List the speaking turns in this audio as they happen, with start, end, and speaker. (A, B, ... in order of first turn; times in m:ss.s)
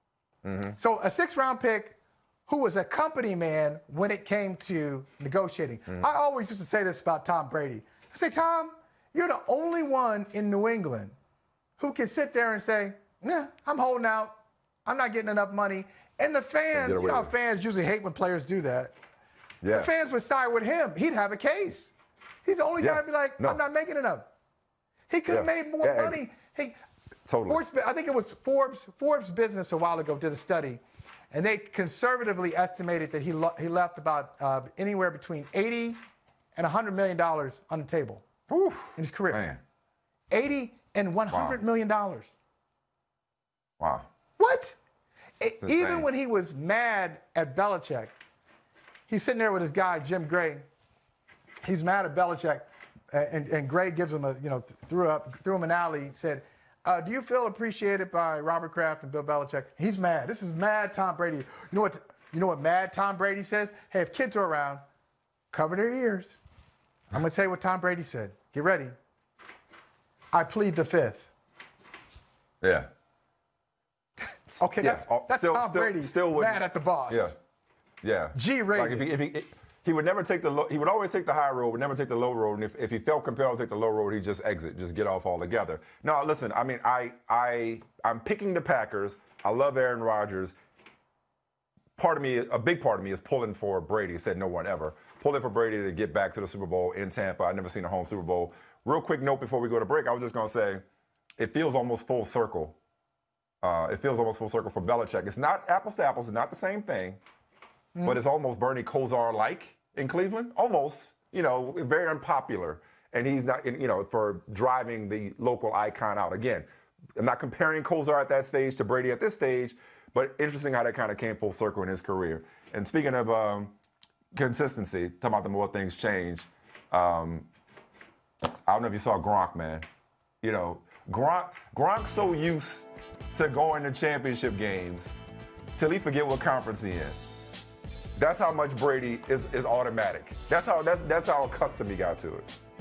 0:00.4-0:00.7 A
0:00.8-0:11.1 B
0:11.8-0:14.3 B
0:14.8-0:18.9 B
0:16.7-0:17.3 A
0:19.6-0:19.9 A
0:19.7-0:24.3 B
0:22.8-0:23.6 A
0:25.1-0:26.8 B
0:25.3-0:26.2 A
0:27.2-0:27.6 A
0:27.4-0:36.0 B
0:36.5-0:38.2 B
0:38.5-0:39.6 A
0:39.0-0:39.4 B
0:40.3-0:42.4 B
0:41.3-0:41.6 A
0:43.8-0:44.1 A
0:44.4-0:44.8 B
0:45.4-0:48.1 B
0:45.6-0:46.1 A
0:49.1-0:50.6 B
0:51.6-1:04.8 B
1:05.5-1:06.4 B
1:07.1-1:08.9 B
1:10.3-1:11.3 B
1:12.6-1:12.9 A
1:14.5-1:17.4 A
1:14.6-1:17.4 B
1:18.0-1:30.5 A
1:18.3-1:19.1 B
1:32.0-1:40.8 A
1:41.4-1:42.8 A
1:43.6-1:47.2 A
1:48.0-2:03.7 A
2:04.3-2:07.5 A
2:08.7-2:09.8 A
2:10.4-2:15.1 A
2:15.8-2:17.2 A
2:18.2-2:22.5 A